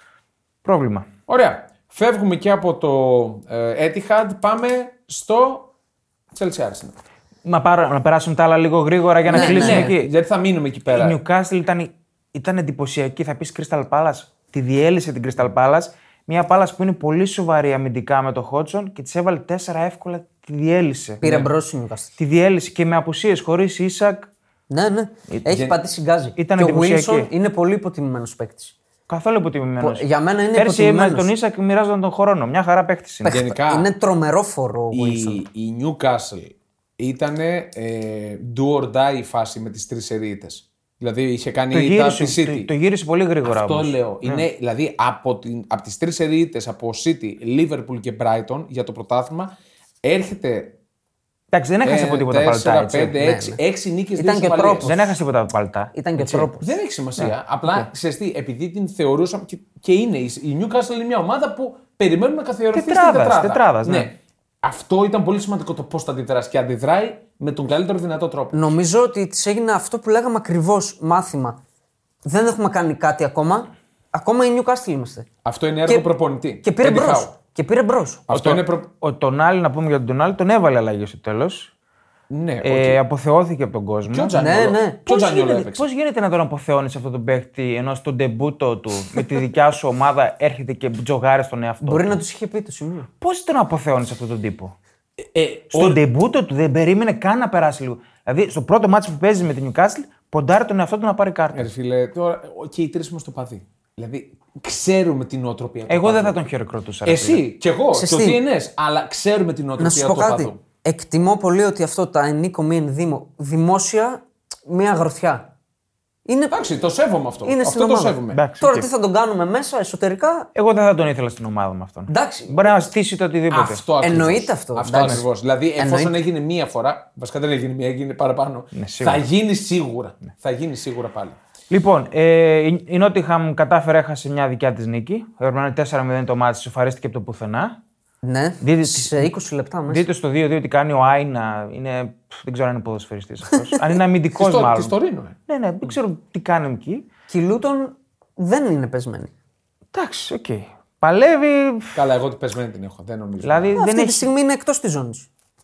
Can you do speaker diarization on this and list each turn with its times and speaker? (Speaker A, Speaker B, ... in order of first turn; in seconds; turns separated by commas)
Speaker A: 0.6-1.1, Speaker B: 1.3-5.7, Speaker B: 6.3-6.9, Speaker A: 7.4-10.1, Speaker B: 9.3-11.2, Speaker C: 9.3-9.9, Speaker A: 10.9-21.5, Speaker C: 21.2-22.1, Speaker A: 22.2-24.3, Speaker C: 24.7-28.7, Speaker B: 25.5-25.8, Speaker A: 26.4-27.3, Speaker A: 29.1-33.4, Speaker C: 29.8-31.3, Speaker C: 33.2-35.4, Speaker B: 33.3-33.9, Speaker B: 34.9-42.7, Speaker A: 41.7-44.4, Speaker B: 43.4-50.8, Speaker A: 51.5-53.1, Speaker B: 51.8-55.0, Speaker C: 53.1-53.6, Speaker C: 54.1-54.9, Speaker A: 54.9-55.9, Speaker C: 55.9-56.8, Speaker B: 56.3-68.7, Speaker A: 57.2-57.9, Speaker A: 62.7-64.1, Speaker C: 68.5-71.6, Speaker C: 72.2-75.3, Speaker B: 75.4-77.3, Speaker C: 76.6-78.3, Speaker B: 78.3-78.9, Speaker A: 78.3-81.7, Speaker B: 82.3-83.0, Speaker A: 82.6-84.3, Speaker B: 84.1-85.9, Speaker C: 84.3-85.4, Speaker A: 85.1-92.2, Speaker C: 91.8-93.1, Speaker A: 93.2-94.7, Speaker B: 95.3-96.0, Speaker A: 95.7-101.7, Speaker B: 101.5-106.4, Speaker A: 105.9-107.4, Speaker B: 107.0-110.6, Speaker C: 107.9-108.4, Speaker C: 109.8-115.5, Speaker C: 116.2-116.7, Speaker B: 116.5-118.4, Speaker C: 117.4-120.5, Speaker A: 118.3-118.9, Speaker A: 120.5-123.8, Speaker C: 122.1-122.7, Speaker B: 123.5-131.4, Speaker C: 124.0-125.2, Speaker C: 125.8-126.1, Speaker A: 128.7-129.2, Speaker A: 131.7-137.8, Speaker C: 138.2-140.1, Speaker A: 138.6-139.3, Speaker A: 139.9-144.9, Speaker B: 144.4-145.4, Speaker A: 145.5-147.1, Speaker C: 147.3-149.3, Speaker A: 149.9-152.0, Speaker B: 151.9-153.7, Speaker A: 153.4-154.3, Speaker C: 153.7-155.3